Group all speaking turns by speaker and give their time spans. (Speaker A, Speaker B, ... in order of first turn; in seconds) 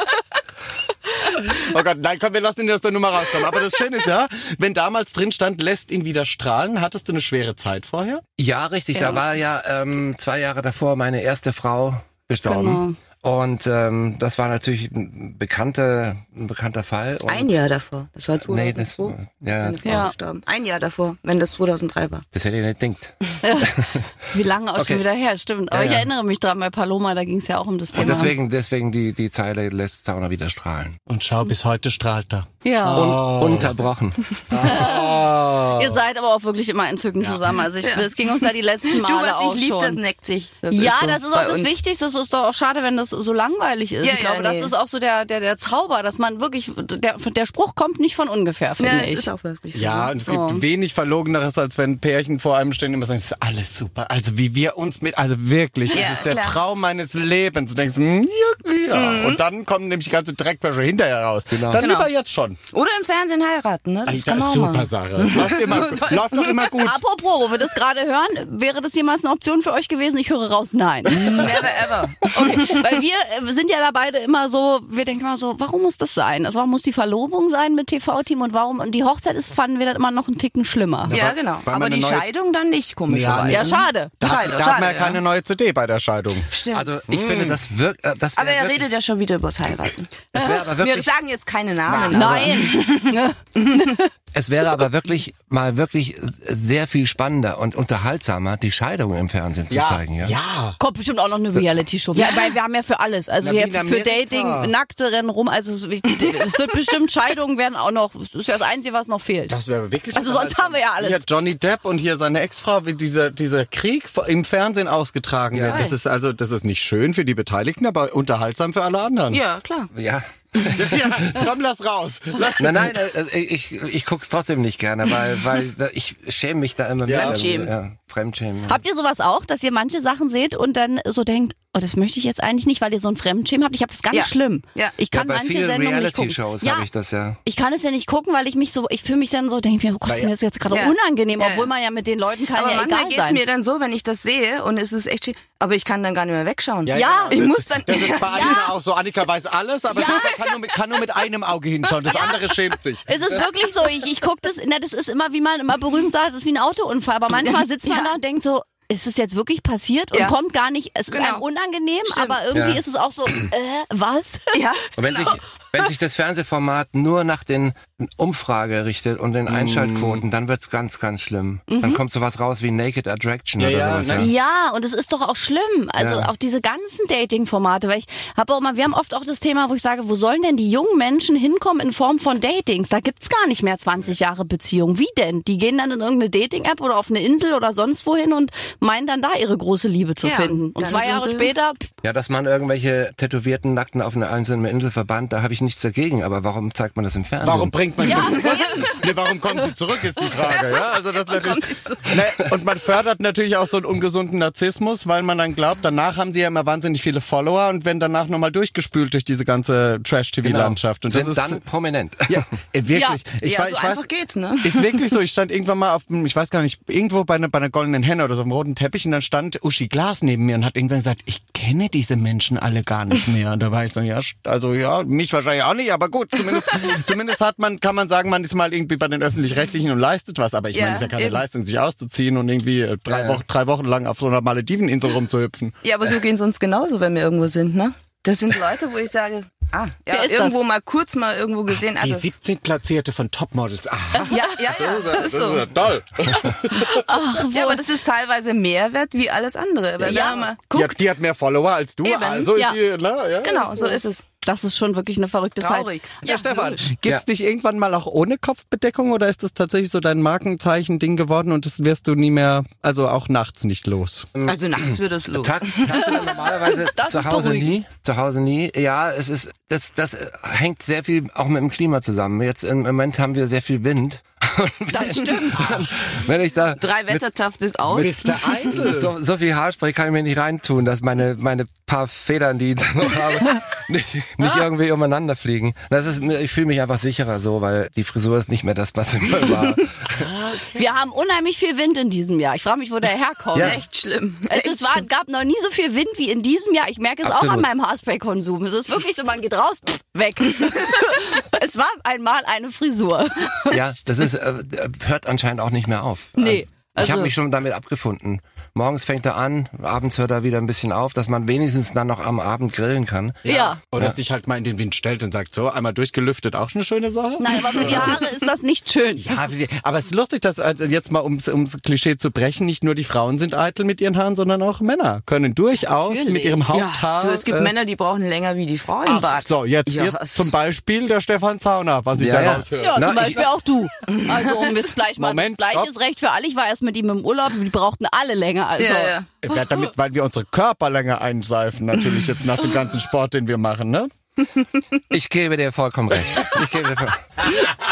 Speaker A: 1.4-8.2, 31.1-33.8, 34.5-36.0, 49.7-62.6, 64.0-67.0, 81.1-82.3, 83.1-86.5, 87.1-87.6, 91.9-92.6, 99.7-100.8, 103.4-104.7, 109.5-119.4, 120.7-123.0, 127.0-127.4, 140.0-140.3, 146.8-153.5, 169.5-170.2, 173.6-174.3, 197.4-211.6, 212.3-214.1, 214.6-235.7, 242.0-247.1, 250.7-254.0, 256.2-264.3, 277.9-279.1, 290.2-290.9, 313.4-318.3, 319.2-327.7, 329.0-333.4, 335.2-335.9, 339.4-344.1
Speaker B: 8.4-17.6, 18.4-20.0, 22.3-24.0, 24.7-25.0, 25.7-26.1, 27.9-31.0, 32.9-34.4, 61.5-61.9, 86.7-88.9, 90.3-91.1, 94.3-100.3, 115.5-115.9, 119.9-121.4, 122.6-128.8, 135.1-137.4, 162.5-162.8, 165.0-174.3, 176.0-176.3, 192.0-197.8, 210.4-212.5, 233.1-233.4, 264.3-277.3, 278.7-290.2, 293.5-293.8, 297.2-297.7, 303.7-314.2, 332.1-333.5, 345.1-347.3
Speaker C: 8.9-9.2, 12.4-13.0, 19.8-20.1, 23.4-28.3, 32.6-33.2, 34.6-40.0, 40.7-49.3, 50.2-50.6, 66.8-71.7, 72.3-81.2, 83.5-84.4, 92.1-94.1, 100.8-109.5, 110.1-111.2, 128.7-136.9, 137.4-143.4, 146.9-147.5, 148.3-148.7, 152.0-152.5, 153.1-165.4, 171.7-172.0, 174.1-191.8, 198.0-199.0, 212.9-213.2, 240.1-240.6, 244.2-244.6, 246.6-247.8, 250.0-250.5, 254.4-255.9, 266.8-267.7, 274.9-275.9, 290.7-293.8, 294.5-303.9, 306.4-307.3, 313.4-313.8, 317.4-319.3, 326.0-326.6, 332.8-339.1
Speaker D: 17.3-22.2, 28.0-28.3, 37.8-41.7, 44.0-44.7, 48.8-50.1, 55.9-56.6, 58.9-59.4, 61.7-62.1, 62.7-66.7, 71.1-72.8, 81.1-85.2, 86.5-86.9, 88.4-93.9, 119.3-119.9, 127.1-127.7, 134.1-134.9, 140.7-141.7, 142.5-148.7, 150.0-150.5, 157.4-158.1, 161.1-161.4, 162.0-162.4, 164.5-164.9, 190.2-191.5, 200.4-202.2, 213.4-214.9, 230.7-231.4, 235.8-242.3, 244.2-245.7, 247.5-251.0, 252.0-252.5, 253.4-254.2, 255.6-256.9, 264.4-266.1, 276.8-278.8, 293.6-295.1, 326.7-330.5, 338.8-339.3